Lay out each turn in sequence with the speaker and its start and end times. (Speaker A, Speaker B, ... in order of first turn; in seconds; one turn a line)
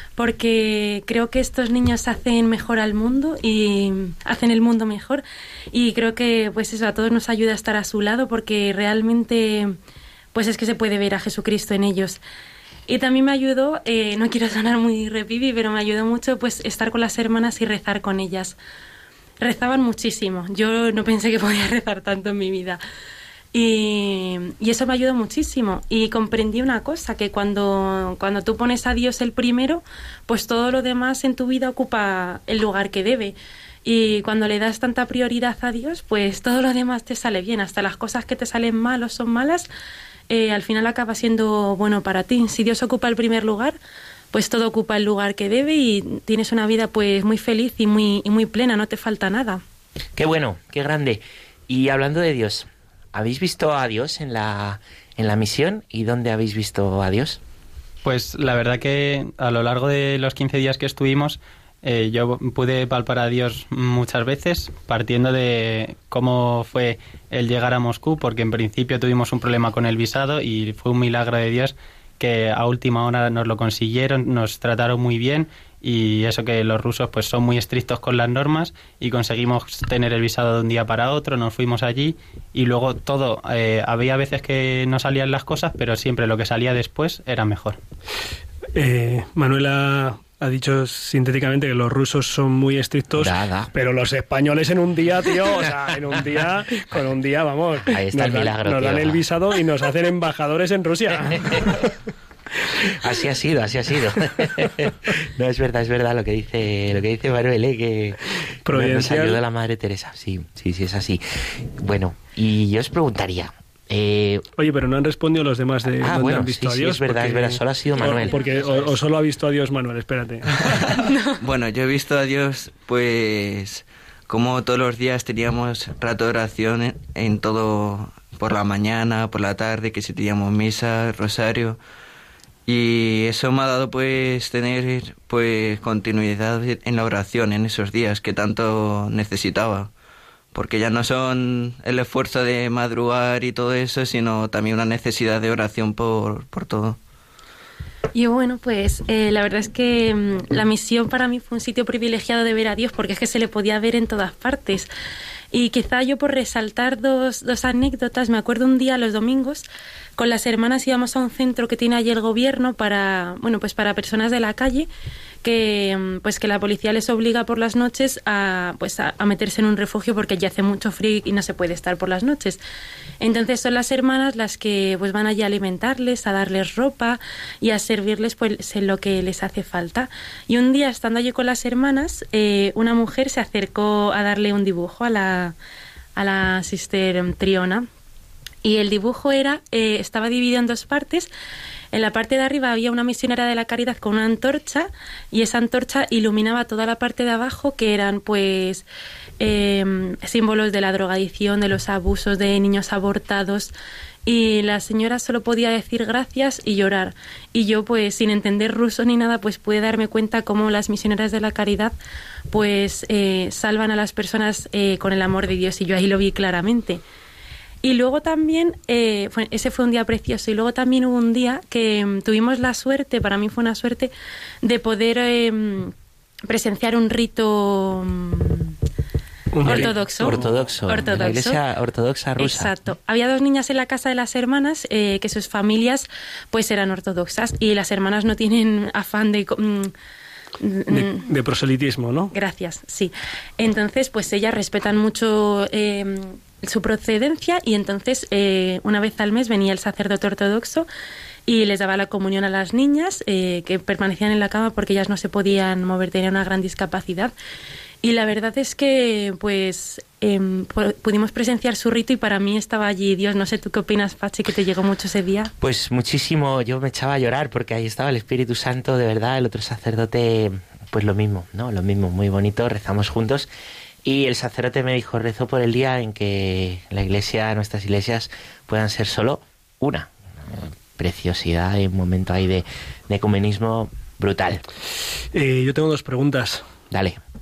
Speaker A: 0.2-9.8
Speaker A: 10.3-12.2
Speaker A: 12.9-18.6
Speaker A: 19.4-22.8
Speaker A: 23.5-39.7
Speaker A: 40.3-43.8
Speaker A: 44.3-49.6
Speaker B: 50.1-57.4
Speaker C: 58.0-87.8
Speaker D: 88.7-101.9
Speaker B: 93.1-93.7
Speaker B: 97.8-99.2
Speaker B: 101.3-101.7
Speaker B: 102.9-114.4
Speaker D: 108.7-109.4
Speaker D: 114.6-120.8
Speaker B: 116.0-118.3
Speaker C: 118.4-118.9
Speaker A: 121.0-121.3
Speaker E: 121.4-131.8
Speaker E: 132.7-139.9
Speaker E: 140.5-147.0
Speaker A: 148.1-154.9
Speaker A: 155.5-159.6
Speaker A: 160.2-164.9
Speaker A: 165.4-172.6
Speaker A: 173.2-185.5
Speaker A: 186.2-187.9
Speaker A: 188.6-191.3
Speaker A: 191.9-198.8
Speaker A: 199.4-203.7
Speaker A: 204.2-211.9
Speaker A: 212.5-217.0
Speaker A: 217.8-224.1
Speaker A: 224.6-225.9
Speaker A: 226.5-228.8
Speaker D: 229.5-230.5
Speaker A: 229.6-231.6
Speaker B: 229.6-232.7
Speaker A: 232.4-239.9
Speaker A: 240.6-241.3
Speaker D: 240.9-242.3
Speaker A: 242.3-250.9
Speaker A: 251.5-257.3
Speaker A: 258.0-265.5
Speaker B: 265.6-273.5
Speaker B: 274.0-284.6
Speaker D: 285.3-286.6
Speaker B: 286.9-287.2